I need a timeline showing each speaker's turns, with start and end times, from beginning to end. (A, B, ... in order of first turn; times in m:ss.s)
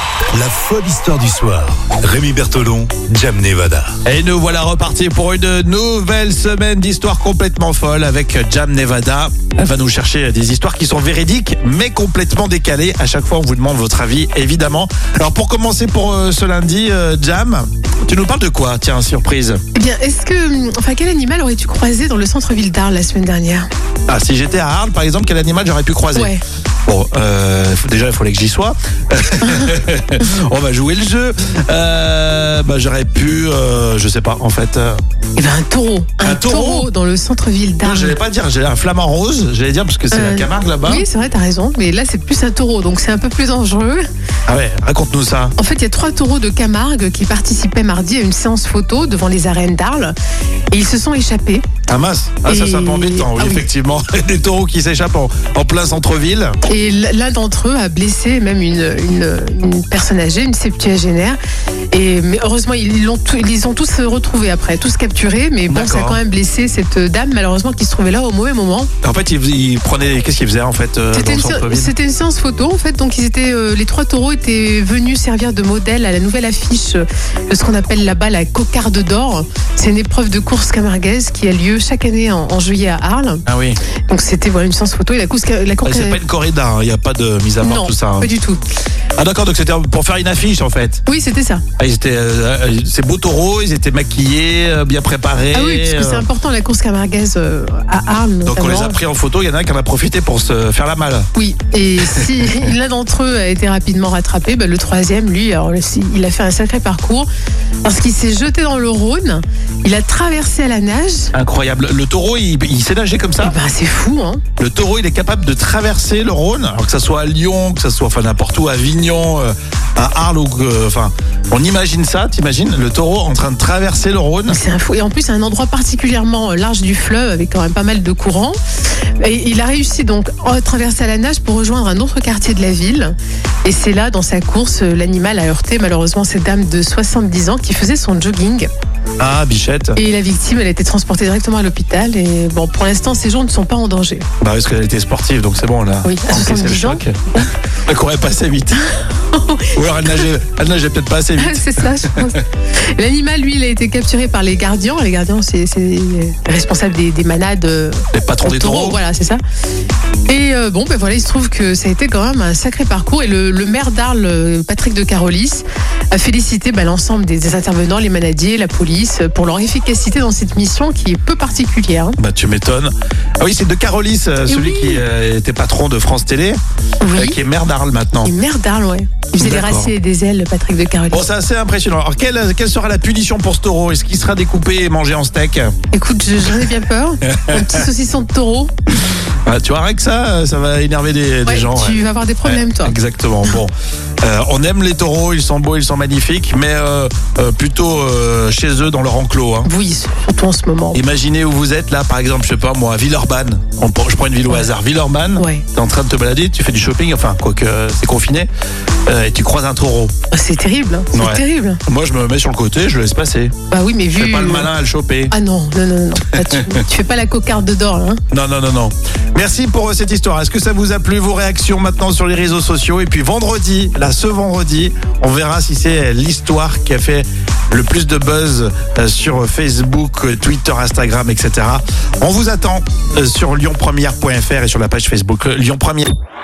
0:00.3-0:03.9 A
0:04.0-0:19.6 B
0:19.7-0:23.7 C
0:24.1-0:26.3 B
0:26.1-0:26.4 C
0:26.9-0:35.0 B
0:29.4-0:29.7 C
0:35.4-0:38.2 C
0:36.2-0:36.9 B
0:37.8-0:41.0 B
0:40.1-0:44.0 C
0:44.4-0:45.5 B
0:45.6-0:50.1 C
0:50.7-0:51.6 C
0:51.9-0:56.6 B
0:52.4-0:53.7 C
0:56.7-1:01.4 C
1:01.9-1:08.9 C
1:05.7-1:06.2 B
1:09.0-1:11.9 B
1:11.1-1:23.4 C
1:23.4-1:23.8 B
1:24.1-1:26.2 C
1:25.8-1:28.3 B
1:27.6-1:28.6 C
1:29.2-1:31.0 B
1:31.1-1:31.6 C
1:31.8-1:36.2 B
1:35.5-1:39.0 C
1:38.4-1:41.3 B
1:41.3-1:47.3 C
1:42.0-1:42.7 B
1:47.8-1:51.3 C
1:51.3-1:53.6 B
1:53.4-1:54.4 C
1:54.6-2:04.6 B
2:04.5-2:08.6 C
2:09.2-2:18.7 C
2:19.2-2:20.0 B
2:20.0-2:24.2 C
2:24.4-2:28.8 B
2:26.0-2:27.0 C
2:29.3-2:30.2 C
2:29.7-2:32.4 B
2:31.4-2:32.4 C
2:32.9-2:39.4 C
2:38.1-2:39.0 B
2:40.3-2:52.2 C
2:52.2-2:56.6 B
2:54.5-2:55.0 C
2:57.0-2:57.4 C
2:57.1-2:58.3 B
2:58.2-3:01.2 C
2:59.4-2:59.9 B
3:01.1-3:05.8 B
3:05.9-3:08.7 C
3:06.4-3:06.7 B
3:07.3-3:07.8 B
3:09.4-3:19.7 B
3:11.4-3:12.9 C
3:19.6-3:21.0 C
3:20.9-3:28.5 B
3:25.4-3:25.6 C
3:29.1-3:30.1 B
3:30.3-3:31.8 C
3:31.1-3:33.5 B
3:33.7-3:34.7 C
3:34.1-3:35.3 B
3:35.3-3:38.2 C
3:36.3-3:36.8 B
3:38.3-3:56.1 B